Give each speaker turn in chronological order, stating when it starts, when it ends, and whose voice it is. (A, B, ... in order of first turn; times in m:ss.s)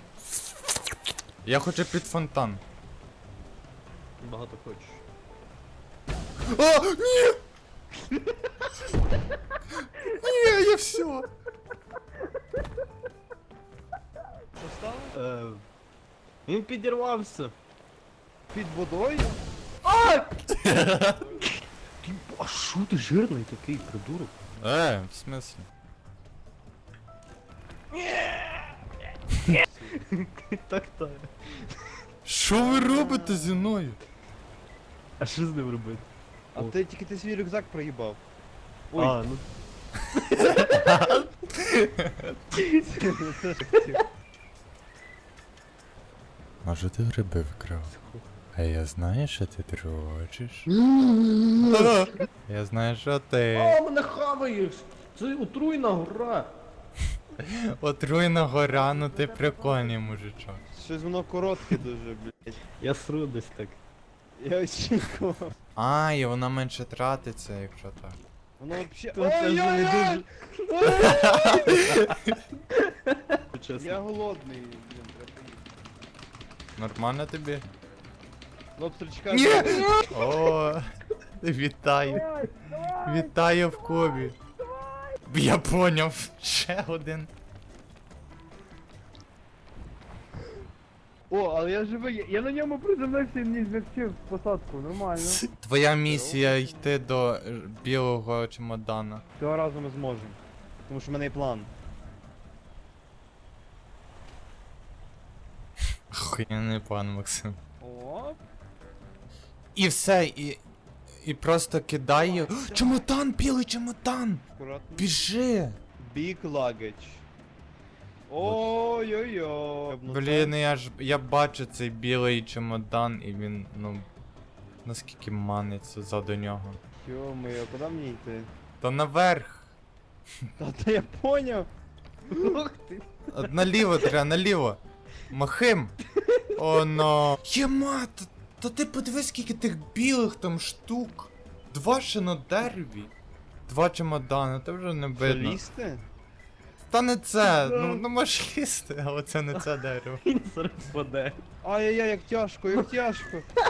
0:01.4-0:02.6 A
0:04.2-0:05.0 B
0:06.4-0:07.4 A
0:08.1-0:09.0 B
0:09.8-0:11.3 A
0:14.6-0:15.2 C
0:15.1-0:15.6 B
0:16.5-0:17.6 B
0:18.5-0:19.4 C
0:19.8-0:24.4 B
0:20.5-0:21.2 A
0:21.0-0:21.5 C
0:24.6-0:25.7 A
0:27.9-0:31.8 B
0:29.5-0:30.1 C
0:32.2-0:34.0 A
0:32.5-0:33.7 C
0:35.2-0:36.7 B
0:36.6-0:38.2 C
0:38.9-0:39.5 B
0:40.1-0:41.1 B
0:40.4-0:42.4 A
0:42.5-0:43.0 B
0:42.9-0:44.0 C
0:43.7-0:44.0 B
0:46.6-0:47.9 A
0:47.9-0:48.3 B
0:48.6-0:50.7 A
0:50.8-0:52.1 B
0:51.6-0:53.8 A
0:53.5-0:56.5 B
0:57.4-1:00.6 A
0:58.7-1:00.0 B
1:00.7-1:02.6 C
1:02.8-1:03.8 B
1:04.4-1:05.6 C
1:05.8-1:08.2 A
1:08.6-1:10.2 C
1:09.2-1:12.2 B
1:10.9-1:12.0 A
1:12.8-1:14.0 B
1:13.8-1:15.7 C
1:16.8-1:17.6 A
1:18.8-1:20.0 C
1:19.3-1:22.3 A
1:20.1-1:20.4 B
1:22.1-1:23.3 C
1:22.9-1:24.4 A
1:25.3-1:27.3 A
1:31.3-1:35.4 C
1:35.2-1:39.2 A
1:36.0-1:36.9 C
1:39.4-1:41.7 C
1:46.1-1:47.6 A
1:47.8-1:48.4 C
1:49.8-1:50.6 A
1:51.1-1:54.4 A
1:52.2-1:53.1 C
1:54.6-1:55.1 C
1:55.0-1:55.8 A
1:56.0-1:57.2 C
1:58.3-2:00.5 C
2:00.1-2:04.1 A
2:04.8-2:06.8 A
2:07.0-2:08.5 C
2:08.8-2:09.7 A
2:10.6-2:11.7 C
2:12.3-2:14.1 B
2:13.3-2:16.0 A
2:16.2-2:17.0 B
2:16.6-2:23.1 A
2:23.7-2:25.6 A
2:25.2-2:26.0 C
2:26.9-2:30.2 A
2:27.4-2:28.0 B
2:30.2-2:31.4 B
2:31.6-2:33.5 C